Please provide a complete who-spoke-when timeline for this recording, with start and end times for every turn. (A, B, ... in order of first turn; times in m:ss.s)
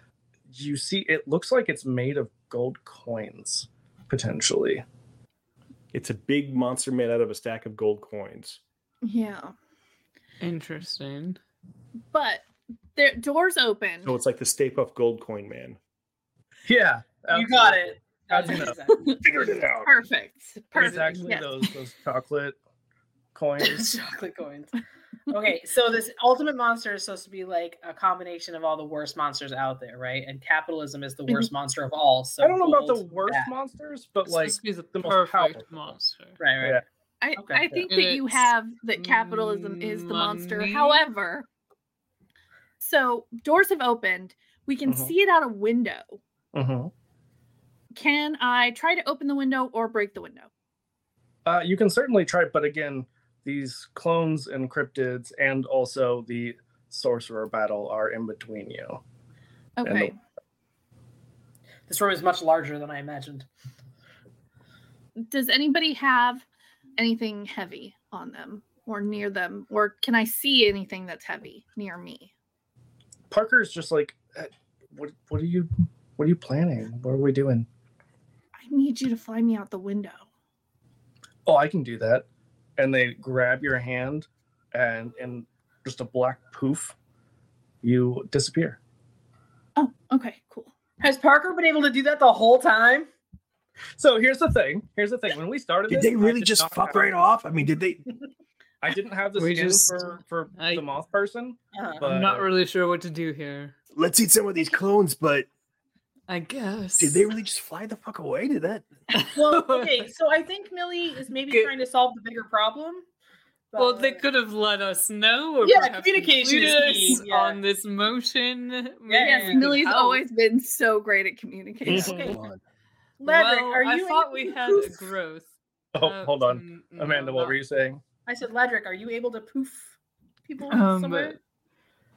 0:00.5-0:04.8 A
0:05.9-0:08.6 B
0:09.0-0:09.5 C
0:10.4-0:11.4 D
0:12.1-0:12.4 C
0:13.0-0:14.1 C
0:14.0-0:15.8 B
0:16.6-0:18.8 A
0:17.3-0:19.2 E
0:19.2-0:19.9 B
0:19.8-0:21.6 C
0:20.7-0:22.6 A
0:23.3-0:23.9 A
0:23.6-0:24.7 E
0:25.3-0:33.5 E
0:32.4-0:35.9 A
0:34.2-0:36.4 D
0:36.4-0:36.8 E
0:37.2-0:41.4 C
0:37.4-0:37.7 E
0:37.8-0:41.1 D
0:42.8-0:46.2 C
0:44.8-0:45.1 A
0:46.5-0:46.9 A
0:47.9-0:50.5 C
0:51.4-0:59.0 A
0:59.8-1:00.2 C
0:59.8-1:00.1 A
1:01.9-1:03.5 E
1:05.2-1:06.4 C
1:07.0-1:12.3 C
1:13.3-1:17.7 A
1:18.6-1:20.2 C
1:21.4-1:22.2 A
1:22.8-1:27.0 A
1:27.8-1:28.8 A
1:29.8-1:30.7 C
1:31.0-1:33.1 E
1:34.0-1:37.2 A
1:35.9-1:38.0 B
1:38.8-1:42.5 A
1:39.4-1:40.8 D
1:41.7-1:42.0 E
1:42.0-1:43.7 D
1:43.9-1:45.5 B
1:46.3-1:47.3 D
1:47.0-1:48.9 B
1:49.1-1:50.0 D
1:49.3-1:53.0 E
1:53.7-1:54.2 E
1:53.8-2:00.2 D
1:55.6-1:57.6 E
1:59.1-1:59.7 E
1:59.2-2:02.3 C
2:01.8-2:02.4 A
2:01.9-2:02.6 B
2:02.0-2:02.4 E
2:03.2-2:05.1 E
2:03.2-2:07.6 D
2:05.9-2:08.0 A
2:08.2-2:09.9 E
2:10.5-2:11.4 E
2:10.7-2:11.4 D